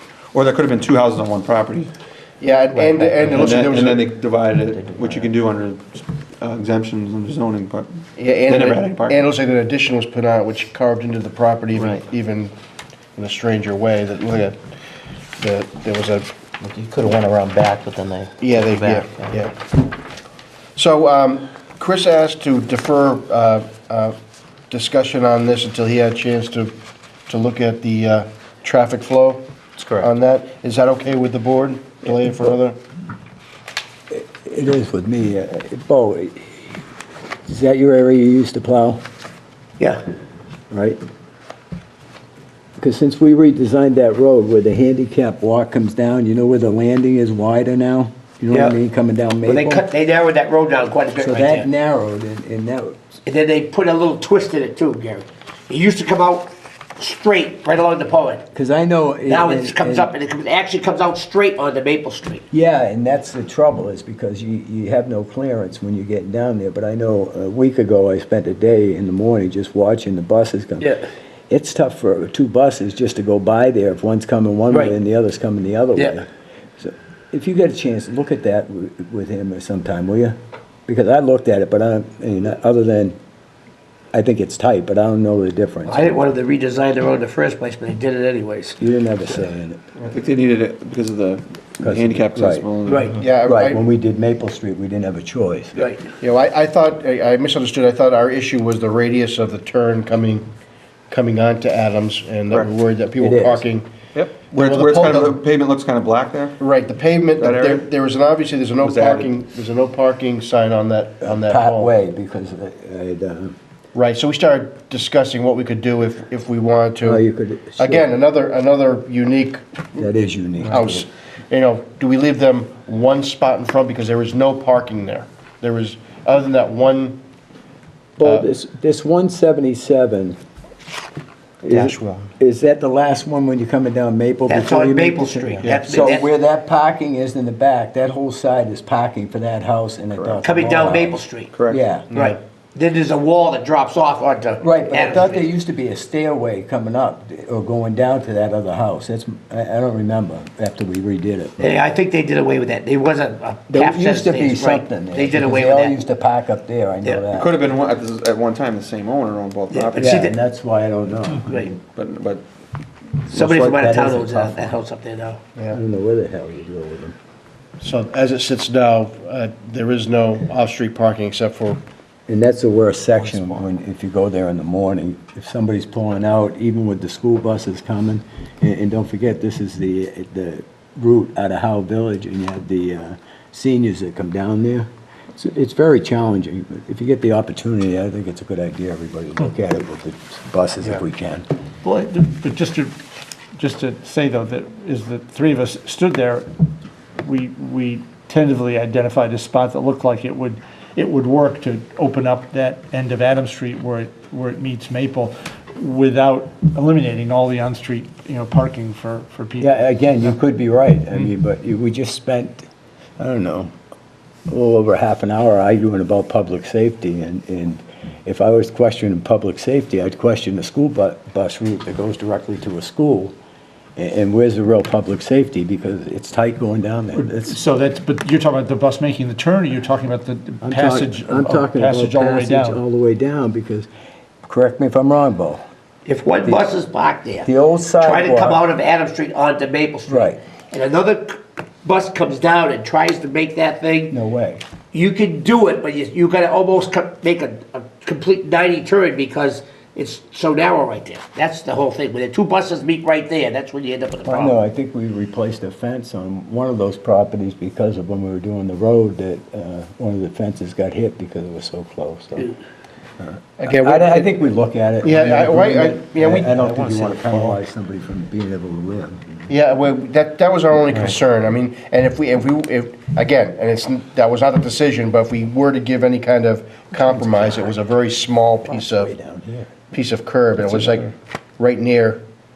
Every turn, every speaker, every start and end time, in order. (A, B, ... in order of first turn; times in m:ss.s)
0:00.3-0:01.9 A
0:02.4-0:04.1 B
0:02.8-0:03.3 C
0:03.2-0:09.2 A
0:04.8-0:05.2 C
0:08.2-0:12.5 B
0:13.2-0:14.6 B
0:15.4-0:16.3 B
0:16.6-0:19.3 C
0:18.4-0:19.5 B
0:20.7-0:24.1 B
0:24.7-0:26.7 B
0:27.3-0:29.4 B
0:29.8-0:30.1 A
0:30.0-0:32.8 B
0:34.1-0:36.6 D
0:37.4-0:39.0 D
0:40.7-0:41.0 D
0:42.8-0:49.8 D
0:48.5-0:48.8 E
0:49.4-0:51.7 E
0:51.2-0:53.0 D
0:53.2-0:58.4 E
0:58.5-1:00.1 D
0:59.2-1:02.4 E
1:02.5-1:16.3 D
1:10.8-1:11.0 E
1:14.7-1:14.9 E
1:16.8-1:20.4 D
1:20.9-1:23.2 D
1:24.1-1:26.2 D
1:25.8-1:28.8 E
1:28.8-1:29.8 D
1:30.0-1:33.2 A
1:31.8-1:32.7 D
1:32.8-1:33.2 E
1:33.2-1:33.8 B
1:33.4-1:35.9 D
1:35.7-1:36.0 E
1:36.2-1:40.4 B
1:41.1-1:43.9 B
1:43.2-1:43.7 D
1:44.1-1:46.6 A
1:44.5-1:45.4 B
1:46.6-1:51.9 B
1:47.4-1:47.9 A
1:48.8-1:49.3 A
1:51.2-1:53.5 D
1:53.9-1:57.2 B
1:57.0-1:58.1 D
1:57.8-2:00.0 B
2:00.0-2:01.0 D
2:00.6-2:07.2 B
2:08.2-2:10.4 D
2:11.6-2:22.1 D
2:11.7-2:12.3 B
2:14.5-2:16.3 E
2:15.6-2:15.9 B
2:20.1-2:20.8 A
2:20.4-2:21.5 E
2:21.5-2:21.8 A
2:22.1-2:22.4 B
2:22.1-2:25.5 E
2:24.6-2:31.8 D
2:31.6-2:36.0 E
2:33.7-2:37.5 D
2:37.3-2:40.2 A
2:39.7-2:40.4 E
2:40.0-2:41.8 D
2:41.4-2:41.7 E
2:41.9-2:42.4 A
2:43.3-2:45.4 E
2:43.3-2:43.7 A
2:43.4-2:44.7 D
2:45.7-2:47.2 D
2:47.8-2:51.8 B
2:52.3-3:11.5 D
3:11.8-3:13.0 F
3:13.6-3:16.6 F
3:17.2-3:29.9 F
3:29.6-3:32.6 D
3:33.2-3:33.7 D
3:34.5-3:43.3 D
3:44.0-3:47.6 D
3:47.2-3:52.8 F
3:50.6-3:53.9 D
3:54.4-3:55.6 D
3:56.0-4:04.1 E
3:57.4-3:58.6 D
4:00.1-4:00.4 D
4:04.1-4:04.6 D
4:04.9-4:14.6 E
4:14.2-4:22.6 D
4:23.2-4:29.5 D
4:23.6-4:24.3 B
4:25.0-4:27.6 B
4:29.5-4:39.1 B
4:36.9-4:37.7 D
4:38.6-4:39.7 D
4:39.9-4:42.2 B